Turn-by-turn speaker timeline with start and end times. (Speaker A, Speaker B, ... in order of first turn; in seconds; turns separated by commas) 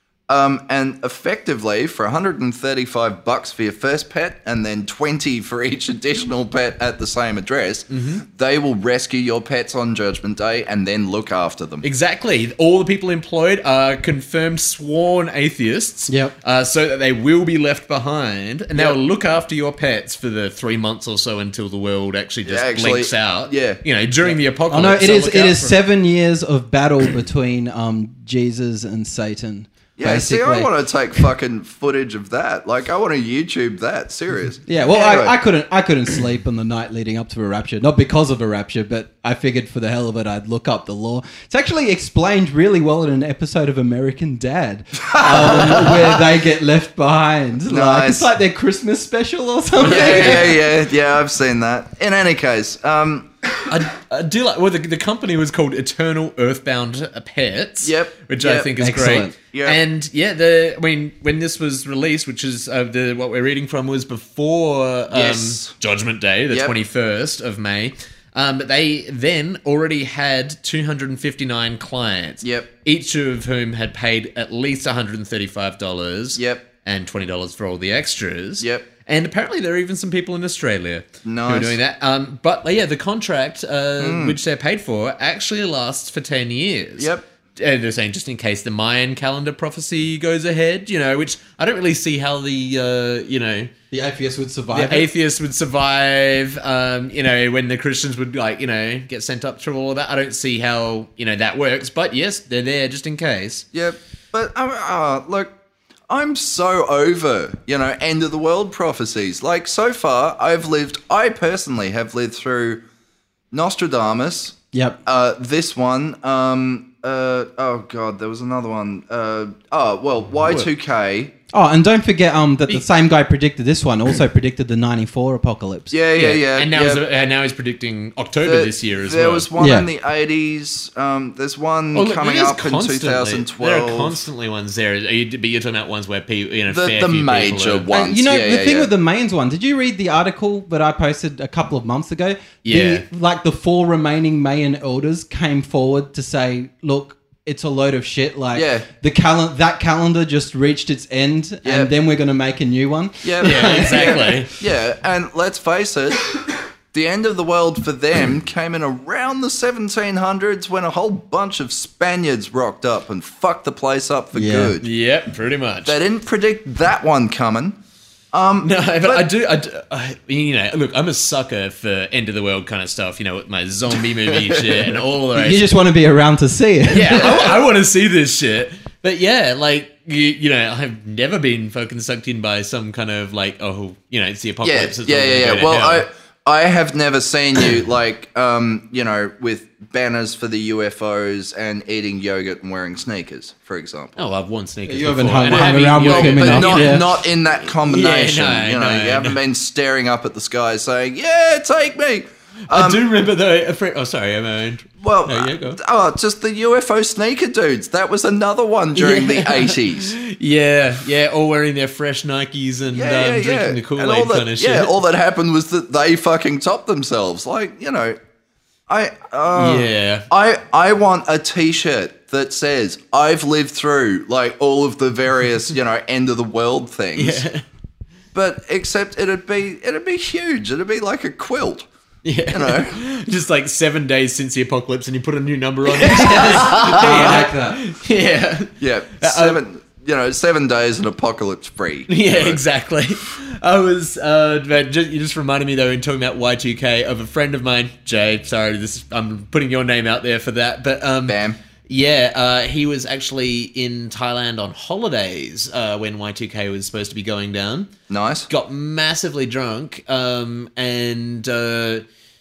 Speaker A: 0.3-11.8, Speaker B: 7.9-8.2, Speaker B: 11.8-25.8, Speaker A: 22.4-23.8, Speaker C: 24.7-30.7, Speaker A: 30.0-35.4, Speaker C: 34.7-50.6, Speaker A: 45.1-46.2, Speaker A: 47.7-48.3, Speaker A: 49.8-53.3, Speaker B: 49.9-50.5, Speaker B: 53.7-93.7, Speaker A: 57.8-58.7, Speaker C: 58.8-59.3, Speaker A: 59.5-59.8, Speaker A: 65.1-65.7, Speaker A: 66.5-66.7, Speaker A: 72.4-72.7, Speaker A: 76.3-76.6, Speaker A: 78.6-78.9, Speaker A: 81.2-81.8, Speaker A: 84.0-84.4, Speaker A: 87.0-87.2, Speaker C: 93.9-95.1, Speaker B: 94.7-103.7, Speaker A: 103.7-105.5, Speaker A: 106.1-112.8, Speaker A: 113.5-121.3, Speaker C: 114.7-115.0, Speaker C: 121.5-126.0, Speaker A: 125.9-127.0, Speaker B: 126.2-129.5, Speaker A: 128.4-134.2, Speaker C: 129.6-129.9, Speaker B: 131.9-137.9, Speaker A: 136.7-138.9, Speaker C: 137.9-154.4, Speaker B: 142.6-143.0, Speaker A: 148.5-148.9, Speaker A: 151.6-151.9, Speaker A: 153.2-156.3, Speaker B: 153.4-154.5, Speaker A: 156.9-164.9, Speaker C: 164.3-164.8, Speaker B: 164.8-166.0, Speaker A: 165.8-167.8, Speaker A: 168.3-169.3, Speaker B: 168.6-175.7, Speaker A: 174.3-174.9, Speaker C: 175.3-177.4, Speaker B: 176.9-186.0, Speaker A: 177.1-177.6, Speaker A: 184.6-194.2, Speaker B: 194.2-199.4, Speaker C: 194.8-197.1, Speaker A: 196.0-203.0, Speaker B: 202.7-205.8, Speaker A: 205.0-210.2, Speaker B: 208.9-214.9, Speaker A: 212.9-218.2, Speaker A: 218.9-227.4, Speaker B: 219.5-220.2, Speaker B: 227.1-227.6, Speaker A: 228.3-231.9, Speaker B: 232.2-239.6, Speaker A: 232.5-233.0, Speaker C: 236.0-237.8, Speaker A: 236.2-237.5, Speaker A: 238.8-242.6, Speaker B: 242.1-257.9, Speaker A: 251.3-251.6, Speaker A: 258.1-258.5, Speaker B: 258.5-262.0